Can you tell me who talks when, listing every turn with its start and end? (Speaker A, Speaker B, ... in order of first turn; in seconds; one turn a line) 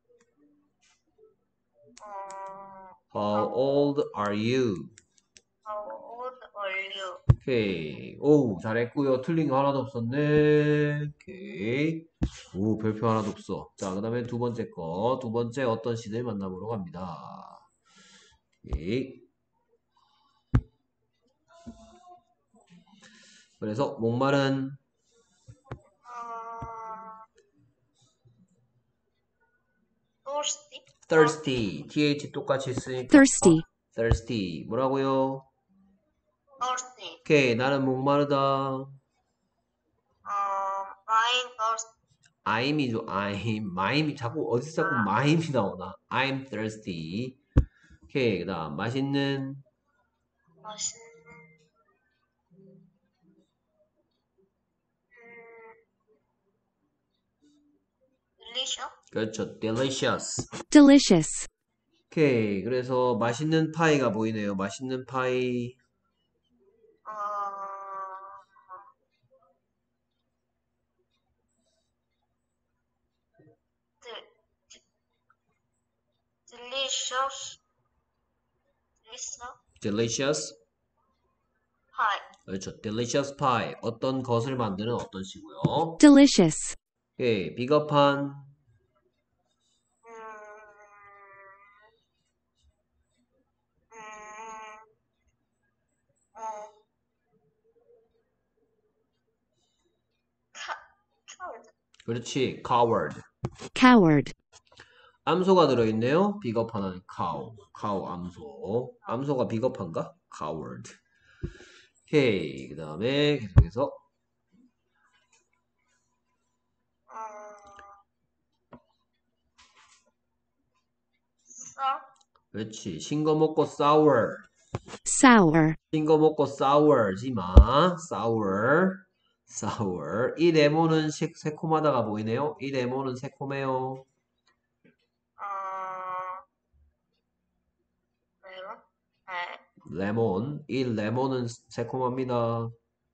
Speaker A: 2.0-3.5
Speaker B: 3.1-4.9
Speaker A: 5.6-7.2
Speaker B: 7.4-17.6
Speaker B: 18.6-19.2
Speaker B: 23.6-24.8
Speaker A: 26.0-27.2
Speaker A: 30.2-31.4
Speaker B: 31.1-35.5
Speaker C: 33.1-33.6
Speaker A: 36.6-37.2
Speaker B: 37.2-39.0
Speaker A: 40.2-41.9
Speaker B: 42.4-47.4
Speaker A: 44.8-45.1
Speaker B: 48.1-49.6
Speaker A: 50.6-51.6
Speaker A: 55.1-55.8
Speaker A: 58.4-59.0
Speaker B: 59.1-60.5
Speaker C: 60.7-61.5
Speaker B: 62.1-65.8
Speaker A: 67.0-68.8
Speaker A: 74.0-74.8
Speaker A: 76.5-77.6
Speaker A: 79.0-79.6
Speaker B: 79.8-80.5
Speaker A: 81.9-82.3
Speaker B: 82.5-86.0
Speaker C: 86.0-86.8
Speaker B: 87.2-88.5
Speaker A: 90.0-91.8
Speaker A: 93.9-94.9
Speaker A: 96.3-96.7
Speaker A: 100.5-101.7
Speaker B: 102.1-103.2
Speaker C: 103.7-104.3
Speaker B: 105.2-111.0
Speaker B: 112.1-114.0
Speaker A: 117.1-117.9
Speaker A: 121.5-122.0
Speaker B: 122.5-124.5
Speaker C: 125.0-125.8
Speaker B: 125.9-134.0
Speaker A: 135.4-136.4
Speaker A: 138.4-139.6
Speaker B: 139.8-142.7